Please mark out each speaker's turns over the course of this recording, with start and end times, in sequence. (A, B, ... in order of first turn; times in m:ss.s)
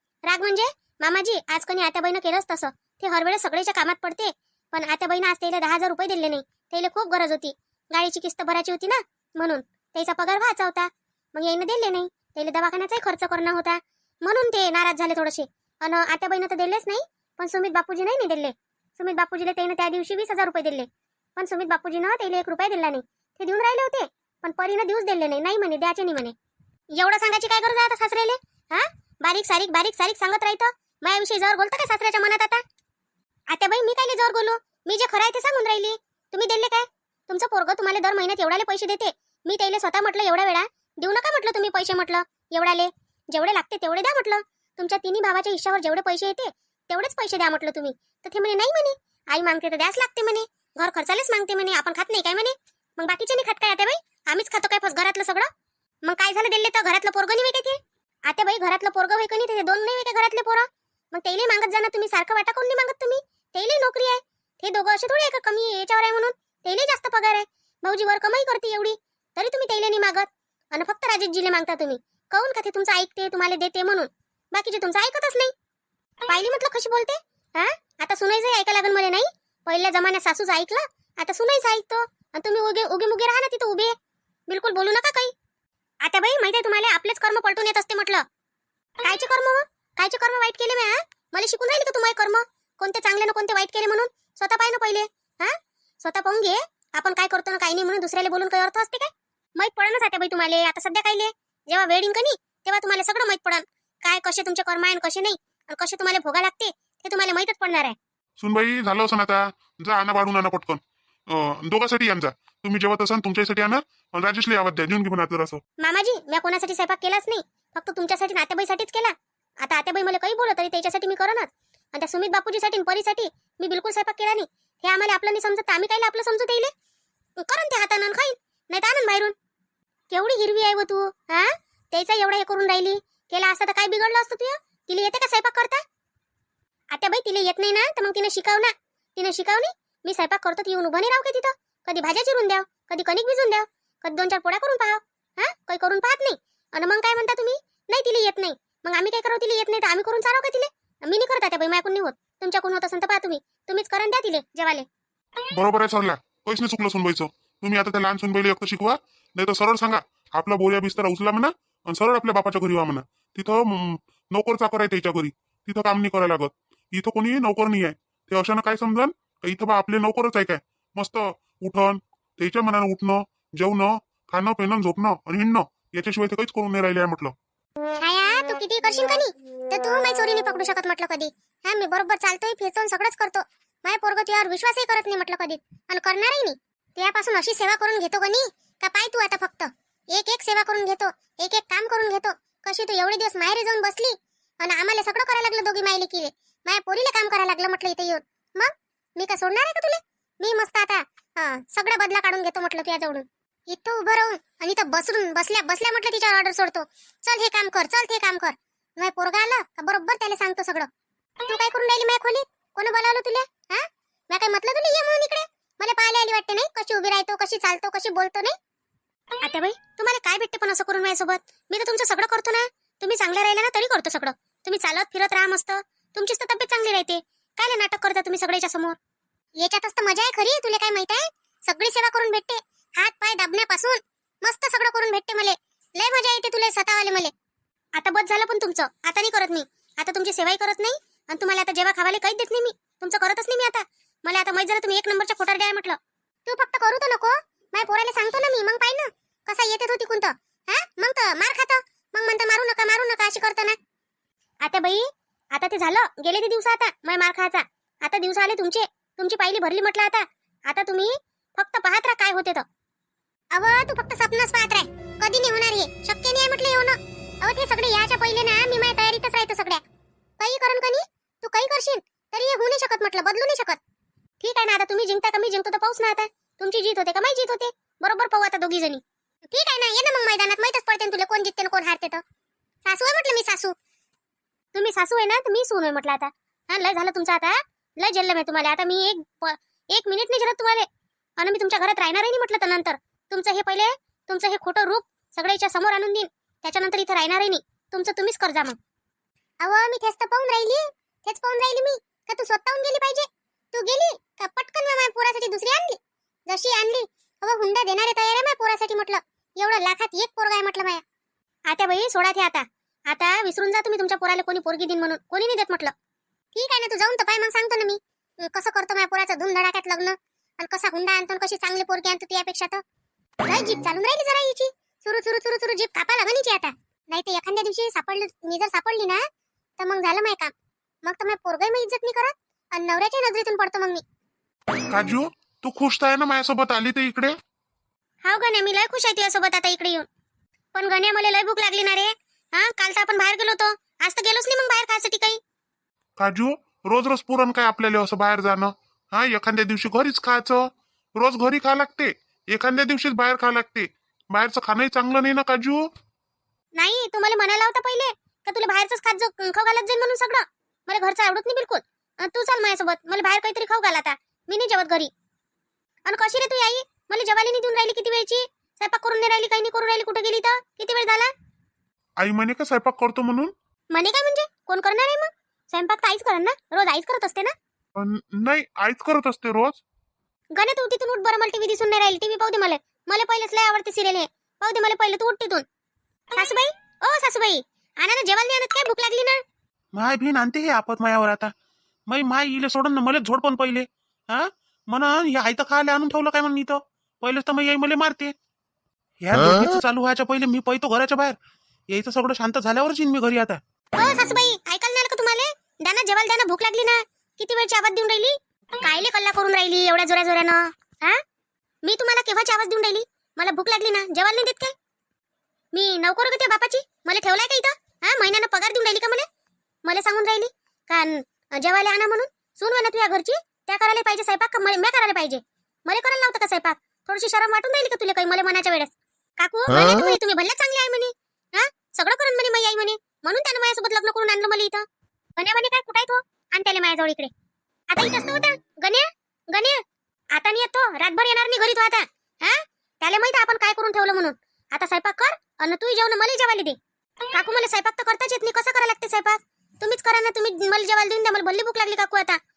0:00.3-0:26.3 A
0:26.9-0:32.6 A
0:33.5-0:55.5 A
0:56.0-1:15.5 A
1:16.3-1:23.9 A
1:24.5-1:25.3 A
1:26.0-1:28.2 A
1:29.0-1:48.0 A
1:48.4-1:55.6 B
1:55.8-2:06.7 A
2:07.4-2:09.3 A
2:10.1-2:15.8 A
2:16.9-2:34.8 A
2:35.5-2:57.3 B
2:58.0-3:30.9 A
3:31.5-3:38.5 A
3:39.4-3:49.0 A
3:49.6-3:57.3 A
3:57.9-4:13.8 A
4:14.6-4:22.6 A
4:23.5-4:29.8 A
4:30.4-4:33.8 A
4:34.4-4:42.2 A
4:42.8-4:43.7 A
4:44.7-4:50.9 A
4:51.4-4:58.8 A
4:59.6-5:11.0 A
5:11.7-5:15.9 A
5:16.5-5:22.8 A
5:23.5-5:29.2 A
5:29.8-5:30.5 A
5:31.0-5:34.0 A
5:34.9-5:37.4 B
5:38.2-5:40.0 A
5:40.7-5:45.4 A
5:46.2-5:55.8 B
5:56.8-6:05.1 A
6:06.0-6:11.3 A
6:12.2-6:13.5 B
6:13.9-6:17.5 A
6:18.0-6:19.8 B
6:20.5-6:25.6 A
6:26.3-6:29.4 A
6:30.0-6:31.5 C
6:30.0-6:31.5 B
6:32.1-6:38.3 C
6:32.1-6:38.3 B
6:39.2-6:41.3 C
6:39.3-6:41.3 B
6:41.9-6:43.6 C
6:41.9-6:43.6 B
6:44.0-6:51.2 A
6:51.8-6:54.7 A
6:55.7-6:59.2 A
6:59.8-7:14.8 A
7:15.4-7:17.3 A
7:17.9-7:19.8 A
7:20.3-7:26.8 A
7:27.3-7:32.4 A